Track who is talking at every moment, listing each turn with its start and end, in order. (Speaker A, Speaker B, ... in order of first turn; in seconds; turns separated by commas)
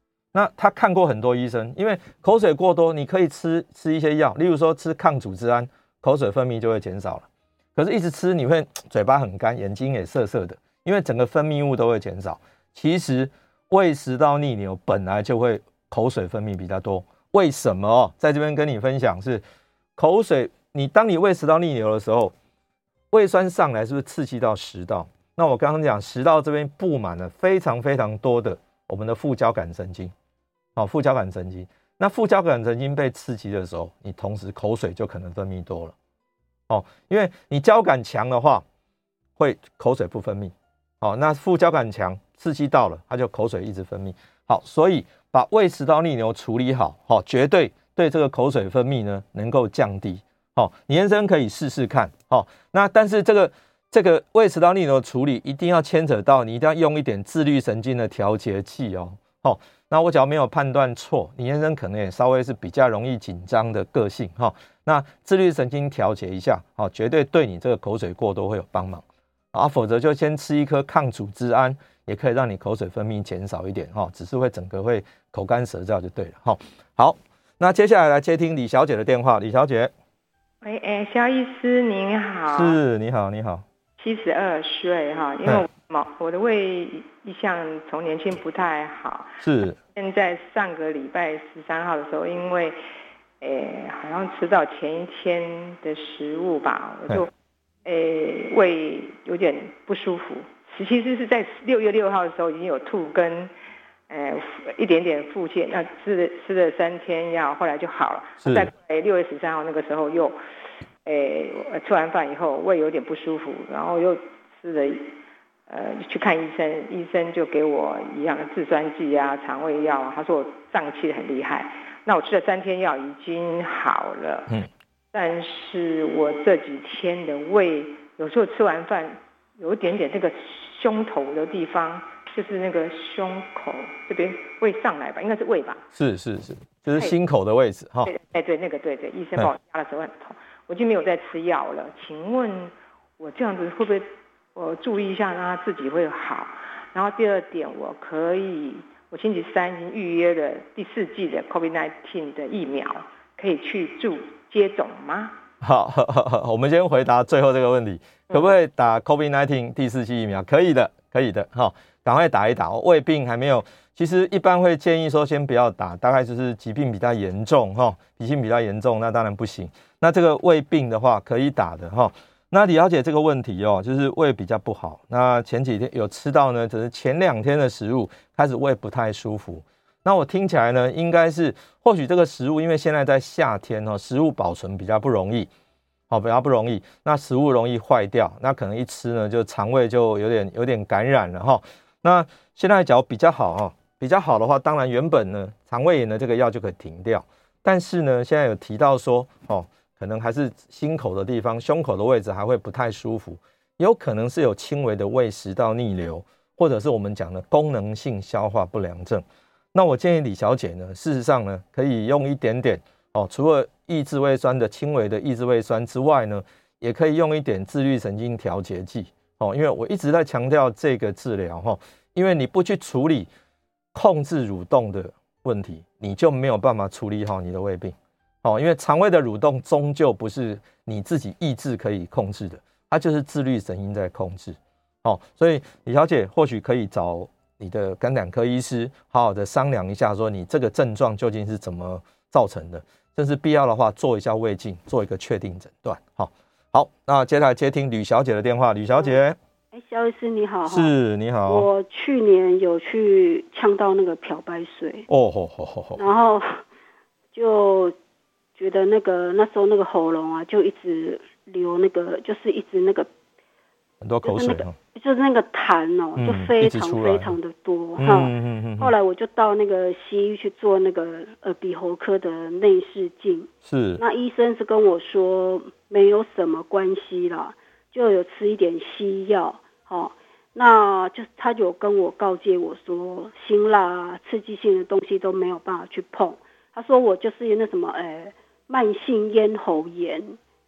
Speaker A: 0.3-19.4, Speaker A: 19.9-22.3, Speaker A: 23.1-30.1, Speaker A: 30.8-35.9, Speaker A: 36.7-38.6, Speaker A: 39.4-79.9, Speaker B: 80.6-82.8, Speaker A: 82.5-83.6, Speaker B: 84.0-89.4, Speaker A: 89.4-89.8, Speaker B: 89.9-92.8, Speaker B: 93.4-97.3, Speaker B: 97.8-103.5, Speaker B: 104.1-110.4, Speaker A: 108.4-108.7, Speaker B: 111.0-115.1, Speaker B: 115.7-124.5, Speaker B: 125.1-135.8, Speaker A: 135.9-138.1, Speaker B: 138.0-155.4, Speaker A: 155.6-185.5, Speaker A: 186.1-223.3, Speaker A: 223.9-249.4, Speaker C: 249.7-250.9, Speaker A: 250.7-251.7, Speaker C: 251.5-255.1, Speaker A: 255.1-256.0, Speaker C: 256.0-256.6, Speaker C: 257.3-257.9, Speaker C: 258.6-263.1, Speaker A: 264.0-264.7, Speaker C: 264.2-290.4, Speaker A: 266.2-267.4, Speaker A: 268.0-268.9, Speaker A: 273.6-274.0